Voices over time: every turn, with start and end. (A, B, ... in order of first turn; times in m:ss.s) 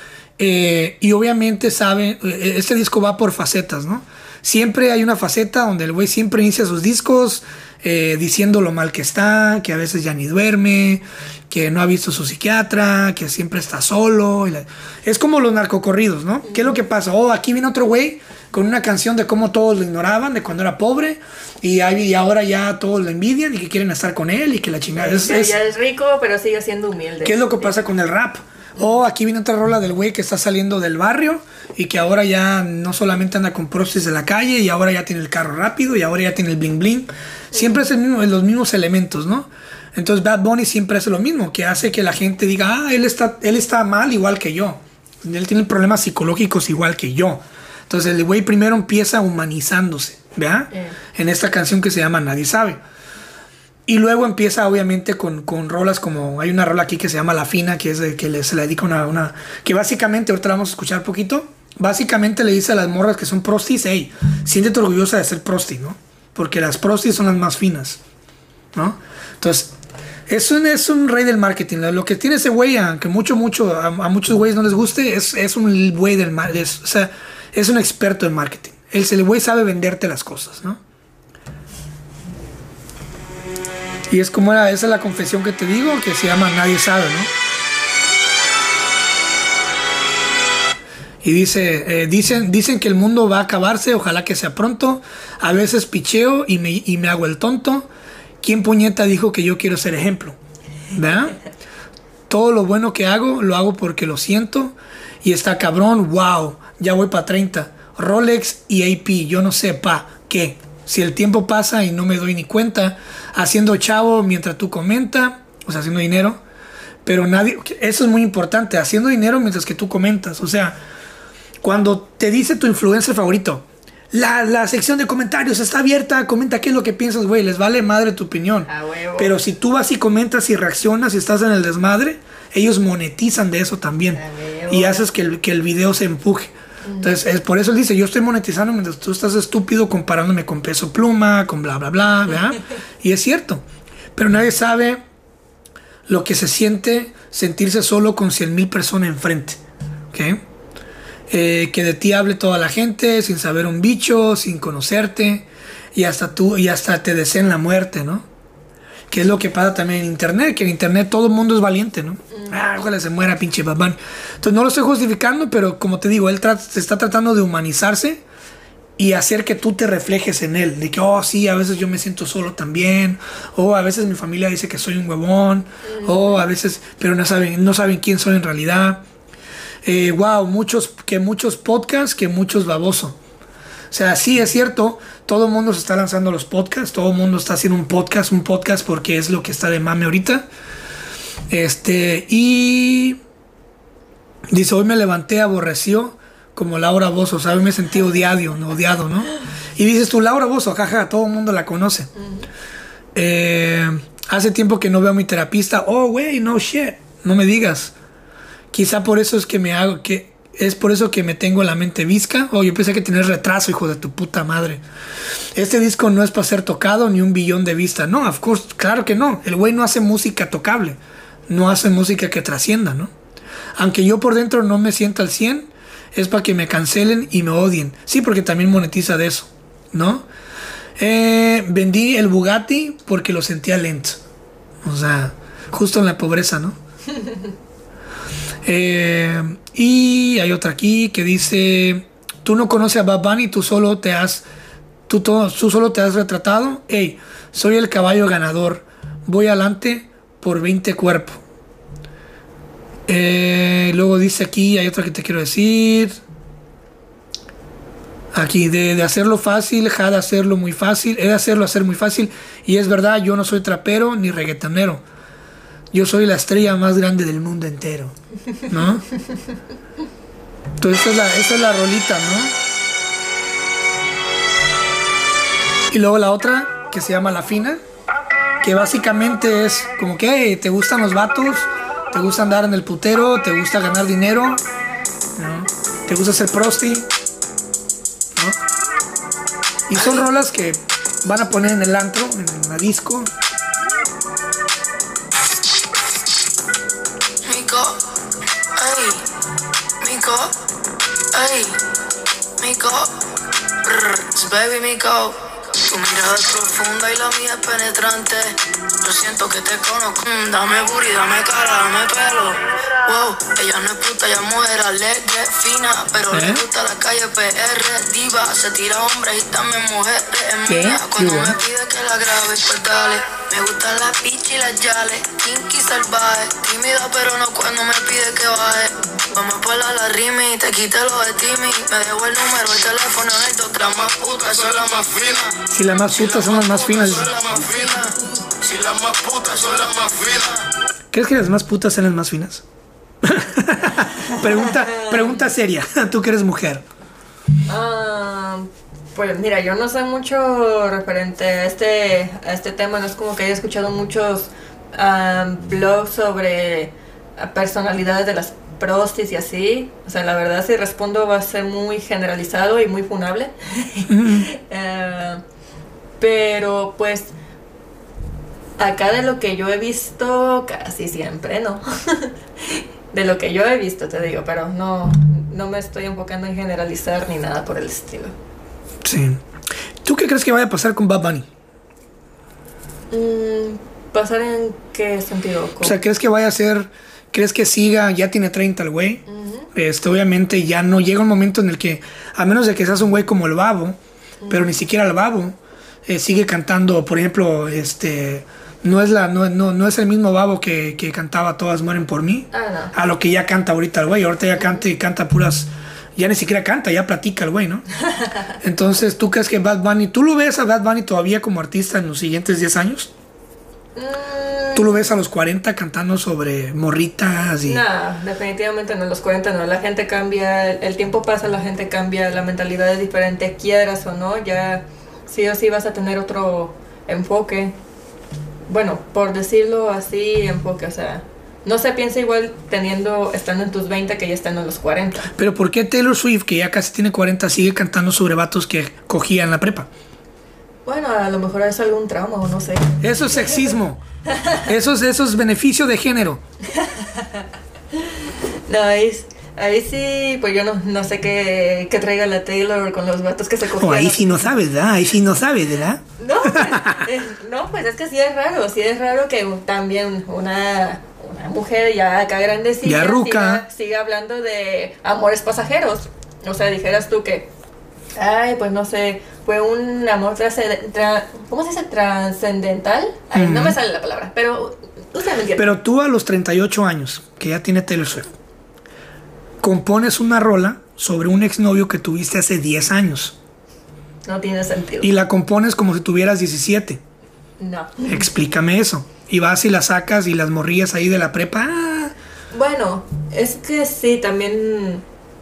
0:00.4-0:25.6 A
0:16.5-0:16.8 B
0:25.0-0:27.8 B
0:27.2-0:52.8 A
0:37.5-0:37.9 B
0:50.7-0:51.0 B
0:53.9-1:08.0 A
1:08.7-1:09.7 A
1:10.3-1:20.8 A
1:24.1-1:27.3 A
1:31.2-1:37.9 A
1:38.4-1:40.4 A
1:40.9-1:41.4 A
1:41.1-1:41.4 B
1:42.3-1:56.4 A
1:57.0-2:00.8 A
2:01.6-2:23.6 A
2:08.7-2:09.3 B
2:14.1-2:15.0 B
2:16.8-2:17.2 B
2:24.2-2:25.0 A
2:26.1-2:29.6 A
2:30.1-2:30.4 A
2:31.3-2:38.3 A
2:39.1-2:48.2 A
2:42.3-2:42.6 B
2:49.0-2:59.0 A
2:55.8-2:56.4 B
2:59.8-3:03.2 A
3:03.9-3:10.5 A
3:11.5-3:13.2 A
3:14.5-3:22.1 A
3:22.2-3:22.5 B
3:23.2-3:27.9 A
3:28.7-3:34.8 A
3:35.6-3:43.1 A
3:43.8-3:50.3 A
3:51.0-3:54.2 A
3:54.8-3:56.8 A
3:58.6-4:04.4 A
4:05.1-4:11.4 A
4:13.1-4:16.2 A
4:18.3-4:25.0 A
4:25.9-4:28.2 A
4:28.7-4:29.1 A
4:30.8-4:32.6 A
4:35.9-4:37.8 A
4:38.6-4:44.6 A
4:45.4-4:47.1 A
4:49.9-4:53.3 A
4:57.5-4:58.0 C
4:58.8-4:59.2 C
5:00.0-5:00.5 C
5:01.3-5:01.8 C
5:02.6-5:03.1 C
5:03.8-5:35.6 C
5:16.3-5:16.6 A
5:20.7-5:21.6 A
5:35.7-5:37.3 A
5:36.3-5:40.6 C
5:41.1-5:42.6 A
5:43.2-5:46.8 A
5:44.3-5:45.4 B
5:47.7-6:05.4 B
6:04.1-6:04.5 A
6:06.2-6:07.3 B
6:08.8-6:18.3 B
6:19.0-6:19.4 A
6:20.0-6:21.5 A
6:23.1-6:26.0 B
6:25.8-6:34.0 A
6:29.3-6:29.7 B
6:34.4-6:34.8 B
6:34.5-6:47.8 A
6:42.5-6:42.9 B
6:44.6-6:44.8 B
6:48.1-6:48.5 B
6:48.6-6:53.1 A
6:54.0-6:55.1 B
6:54.8-6:57.8 A
6:57.6-7:07.8 B
7:08.7-7:15.3 B
7:15.4-7:19.9 A
7:20.9-7:23.7 B
7:23.0-7:24.0 A
7:24.3-7:24.6 B
7:24.6-7:26.4 A
7:26.7-7:27.4 B
7:28.7-7:34.5 B
7:33.8-7:37.0 A
7:36.2-7:47.5 B
7:42.8-7:43.6 A
7:48.2-7:55.8 B
7:53.3-7:53.8 A
7:55.6-7:58.3 A
7:59.6-8:03.4 A
8:04.2-8:05.1 B
8:05.0-8:07.0 A
8:07.6-8:08.3 B
8:08.1-8:12.1 A
8:12.5-8:15.0 B